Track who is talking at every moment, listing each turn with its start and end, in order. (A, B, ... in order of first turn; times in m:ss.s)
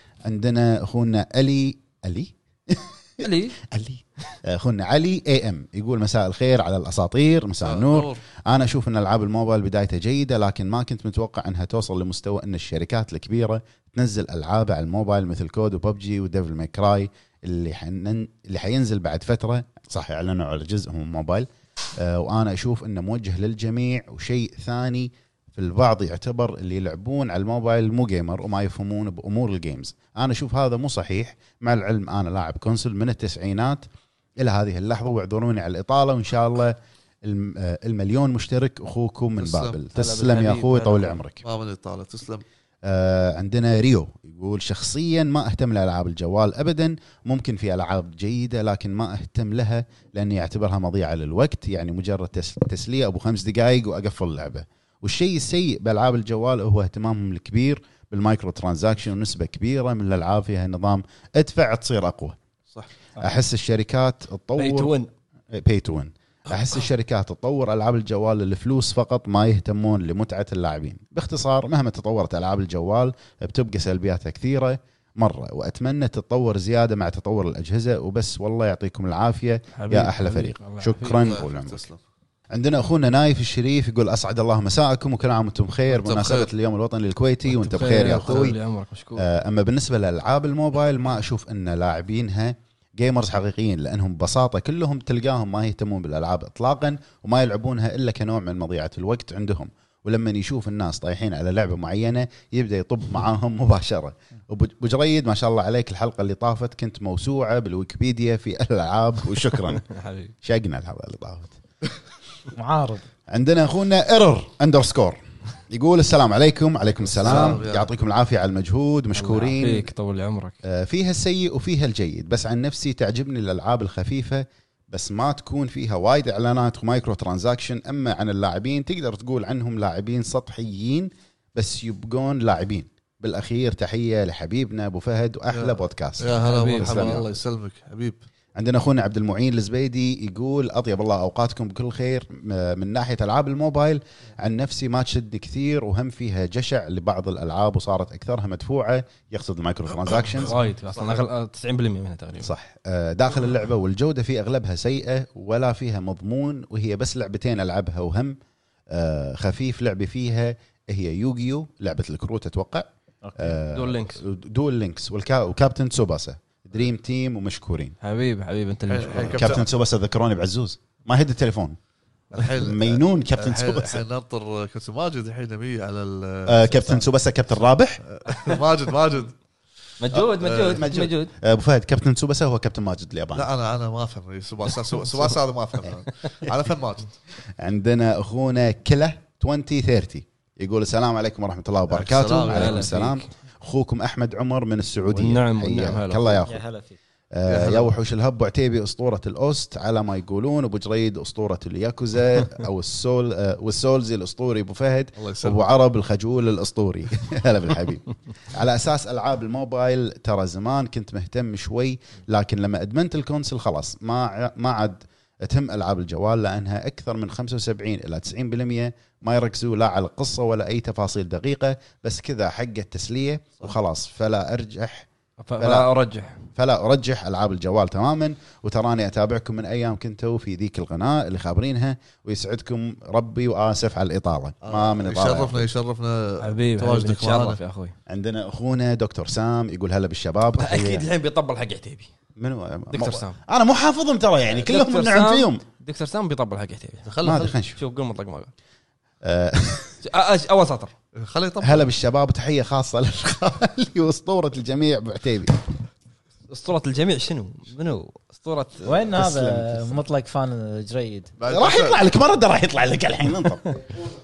0:00.2-0:33.8 A
0:03.2-0:03.6 B
0:07.6-0:08.2 C
0:34.4-0:41.4 A
0:39.4-0:39.8 C
0:39.9-0:41.2 B
0:41.4-0:42.4 C
0:42.8-1:02.4 A
1:03.2-1:04.9 A
1:04.6-1:05.1 B
1:05.5-1:21.9 A
1:19.7-1:21.3 B
1:21.2-1:22.0 C
1:22.5-1:28.6 A
1:25.9-1:26.5 C
1:27.5-1:29.3 B
1:29.2-1:49.8 A
1:49.7-1:50.3 B
1:50.4-1:51.6 A
1:52.5-1:53.0 D
1:53.3-1:59.9 A
1:57.2-1:57.6 B
1:57.2-1:57.9 C
1:59.1-2:00.6 B
2:00.6-2:17.3 A
2:15.5-2:18.2 C
2:16.4-2:17.3 B
2:18.6-2:30.5 A
2:30.4-2:32.5 B
2:32.4-2:38.4 A
2:38.9-2:48.0 A
2:43.2-2:44.2 B
2:48.0-2:49.6 B
2:48.9-2:49.6 C
2:49.3-2:51.8 A
2:52.3-2:57.1 C
2:52.4-2:54.0 A
2:56.5-2:58.0 A
2:58.0-2:59.4 C
3:00.0-3:01.3 B
3:00.1-3:03.5 A
3:00.2-3:00.8 C
3:03.4-3:07.2 C
3:07.6-3:16.6 A
3:11.9-3:12.9 C
3:12.5-3:13.3 B
3:15.1-3:16.4 B
3:16.5-3:17.0 D
3:17.4-3:45.1 A
3:17.5-3:17.9 C
3:25.2-3:25.7 C
3:45.4-3:46.5 B
3:45.6-3:45.9 A
3:46.6-3:55.7 A
3:54.6-3:57.6 C
3:56.4-3:58.0 B
3:58.1-4:01.1 A
4:00.6-4:02.1 B
4:02.4-4:05.6 A
4:02.9-4:03.4 B
4:04.5-4:07.1 B
4:07.0-4:07.6 C
4:07.2-4:07.8 A
4:07.8-4:08.5 B
4:09.2-4:10.0 A
4:10.0-4:10.9 B
4:11.2-4:11.9 C
4:11.6-4:15.6 A
4:16.5-4:19.0 B
4:18.9-4:21.3 D
4:19.1-4:20.0 A
4:21.4-4:22.1 C
4:21.5-4:23.6 A